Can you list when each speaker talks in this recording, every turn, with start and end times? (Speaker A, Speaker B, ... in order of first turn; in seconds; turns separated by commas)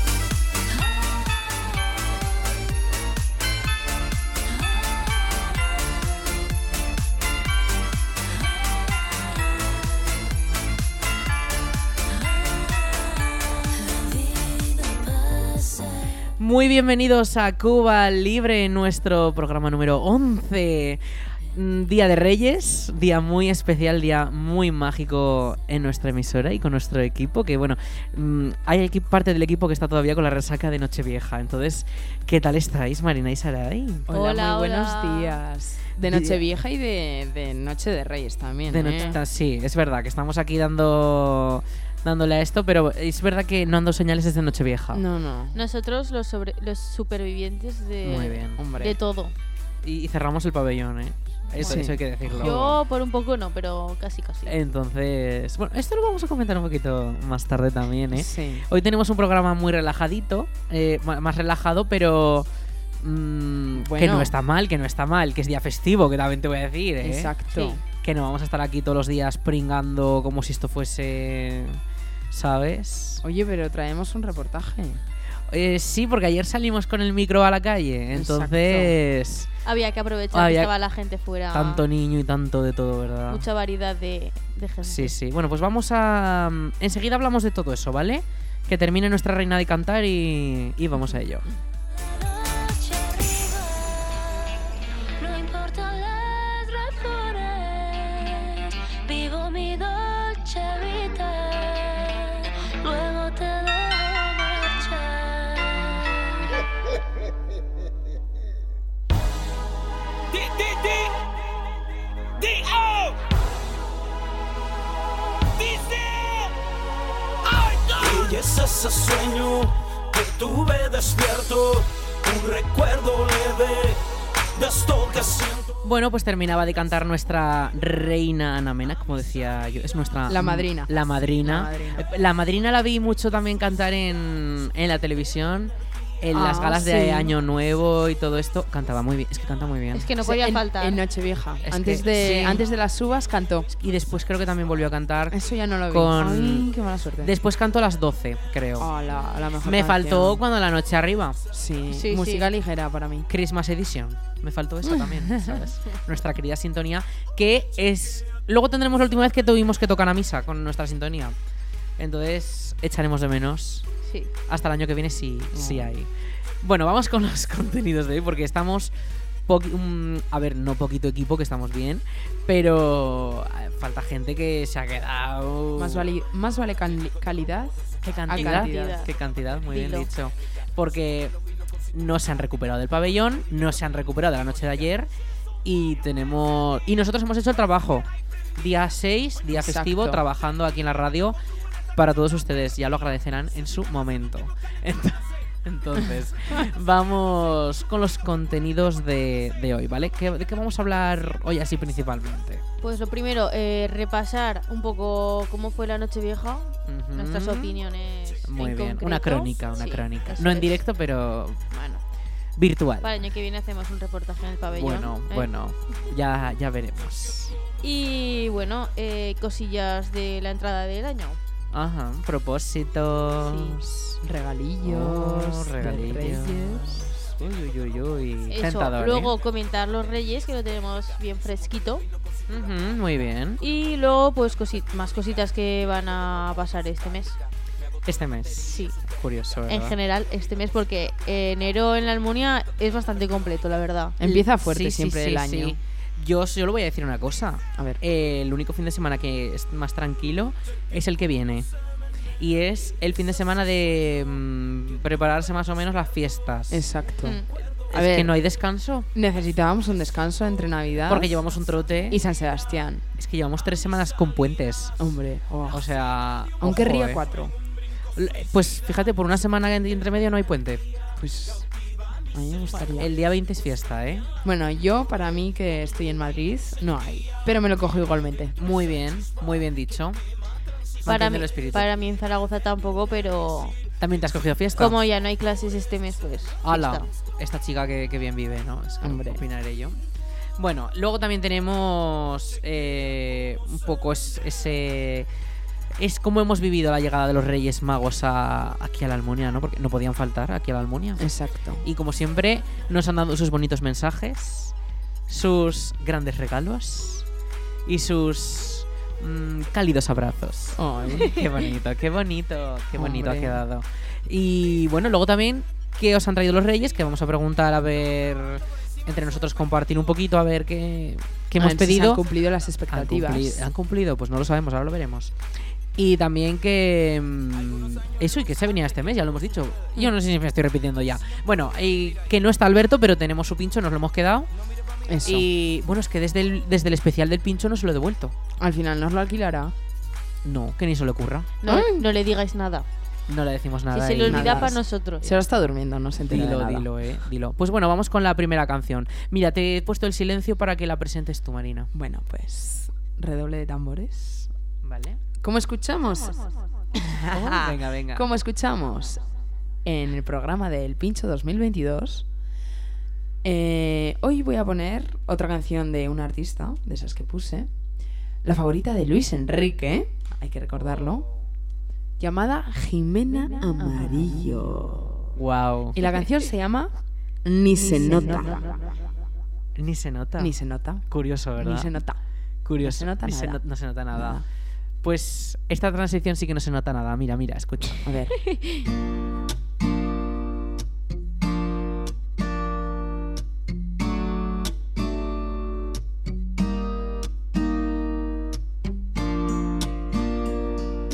Speaker A: 0.7-1.7, Speaker A: 4.5-5.6, Speaker A: 8.4-9.7, Speaker A: 12.1-16.1, Speaker B: 16.4-21.0, Speaker B: 21.5-34.1, Speaker C: 34.1-39.1, Speaker D: 34.1-35.4, Speaker B: 36.1-36.4, Speaker B: 38.7-45.0, Speaker C: 44.9-45.6, Speaker D: 45.5-49.3, Speaker B: 48.0-48.6, Speaker C: 48.6-49.0, Speaker B: 49.8-52.8, Speaker C: 51.6-52.5, Speaker D: 52.3-54.5, Speaker B: 54.5-62.5, Speaker C: 58.1-58.6, Speaker B: 63.0-67.3, Speaker C: 63.8-64.3, Speaker C: 67.0-67.8, Speaker B: 67.8-71.8, Speaker B: 72.3-73.2, Speaker C: 73.2-75.0, Speaker B: 75.5-79.5, Speaker C: 78.1-78.9, Speaker D: 79.6-81.8, Speaker B: 80.3-80.7, Speaker B: 81.5-83.4, Speaker D: 83.3-85.1, Speaker B: 84.8-91.4, Speaker A: 92.0-94.6, Speaker A: 95.2-105.9, Speaker E: 110.3-111.1, Speaker E: 112.4-113.1, Speaker E: 115.6-116.5, Speaker E: 117.4-124.0, Speaker E: 124.5-125.7, Speaker B: 125.8-140.1, Speaker C: 130.3-132.1, Speaker C: 136.3-137.3, Speaker D: 139.9-141.0, Speaker C: 140.2-143.7, Speaker B: 141.7-142.6, Speaker B: 143.7-145.4, Speaker C: 145.3-147.3, Speaker B: 145.9-146.7, Speaker B: 147.2-148.9, Speaker C: 148.8-150.4, Speaker B: 149.6-151.4, Speaker C: 151.5-153.3, Speaker D: 151.9-152.5, Speaker B: 153.3-161.3, Speaker C: 154.8-155.6, Speaker B: 162.0-163.8, Speaker B: 164.5-166.1, Speaker C: 165.5-165.9, Speaker B: 166.6-168.9, Speaker B: 169.5-176.1, Speaker C: 175.8-177.8, Speaker B: 178.0-181.3, Speaker C: 178.3-179.0, Speaker D: 178.3-179.1, Speaker D: 179.7-180.1, Speaker B: 181.9-185.1, Speaker B: 185.6-188.1, Speaker B: 188.6-191.3, Speaker C: 189.5-190.2, Speaker B: 191.9-202.6, Speaker D: 202.8-210.7, Speaker B: 206.9-207.8, Speaker B: 208.5-211.6, Speaker D: 211.7-212.0, Speaker B: 212.6-213.1, Speaker D: 213.0-215.5, Speaker B: 214.7-217.6, Speaker D: 217.8-221.4, Speaker B: 221.7-224.2, Speaker D: 223.4-223.8, Speaker C: 224.2-227.1, Speaker B: 224.8-229.3, Speaker D: 228.5-232.0, Speaker B: 232.5-233.6, Speaker D: 233.6-237.4, Speaker B: 238.1-239.9, Speaker D: 238.6-238.9, Speaker D: 239.7-244.2, Speaker C: 244.2-245.8, Speaker B: 244.2-251.7, Speaker B: 252.4-256.9, Speaker C: 256.7-257.4, Speaker B: 257.9-259.1, Speaker C: 257.9-258.3, Speaker C: 259.1-261.4, Speaker B: 261.1-262.2, Speaker C: 262.1-263.0, Speaker B: 263.2-264.9, Speaker C: 265.0-265.8, Speaker B: 265.7-267.2, Speaker C: 266.6-267.5, Speaker B: 268.1-270.8, Speaker C: 271.2-271.6, Speaker C: 272.3-273.1, Speaker B: 272.8-274.3, Speaker C: 274.4-278.5, Speaker B: 278.6-280.2, Speaker B: 281.0-281.9, Speaker D: 281.1-283.8, Speaker B: 284.0-285.0, Speaker D: 284.8-287.1, Speaker B: 286.6-290.0, Speaker C: 289.0-289.4, Speaker B: 290.6-295.3, Speaker B: 296.0-301.2, Speaker C: 301.2-301.8, Speaker B: 301.8-304.7, Speaker B: 305.3-307.2, Speaker B: 307.9-322.2, Speaker C: 310.8-311.4, Speaker C: 312.9-313.6, Speaker C: 321.6-323.6, Speaker B: 322.9-325.3, Speaker B: 325.9-334.5, Speaker C: 335.1-335.5, Speaker B: 335.2-338.3, Speaker C: 338.6-339.7, Speaker B: 340.4-341.5, Speaker D: 341.6-342.9, Speaker C: 341.7-342.0, Speaker B: 343.3-344.7, Speaker D: 343.9-345.3, Speaker C: 344.2-346.9, Speaker B: 346.2-351.9, Speaker C: 351.9-354.5, Speaker B: 354.8-355.2, Speaker C: 355.4-356.4, Speaker C: 357.0-359.2, Speaker B: 357.3-358.2, Speaker C: 359.8-362.2, Speaker C: 363.4-367.7, Speaker C: 368.4-371.2, Speaker C: 372.2-375.2, Speaker B: 375.4-376.0, Speaker C: 375.9-376.9, Speaker C: 377.4-378.9, Speaker B: 379.8-380.5, Speaker C: 380.4-381.1, Speaker B: 381.1-381.9, Speaker C: 381.6-382.2, Speaker B: 382.6-384.4, Speaker C: 382.8-383.6, Speaker C: 384.1-384.4, Speaker B: 385.0-388.1, Speaker C: 388.0-388.4, Speaker D: 388.4-388.8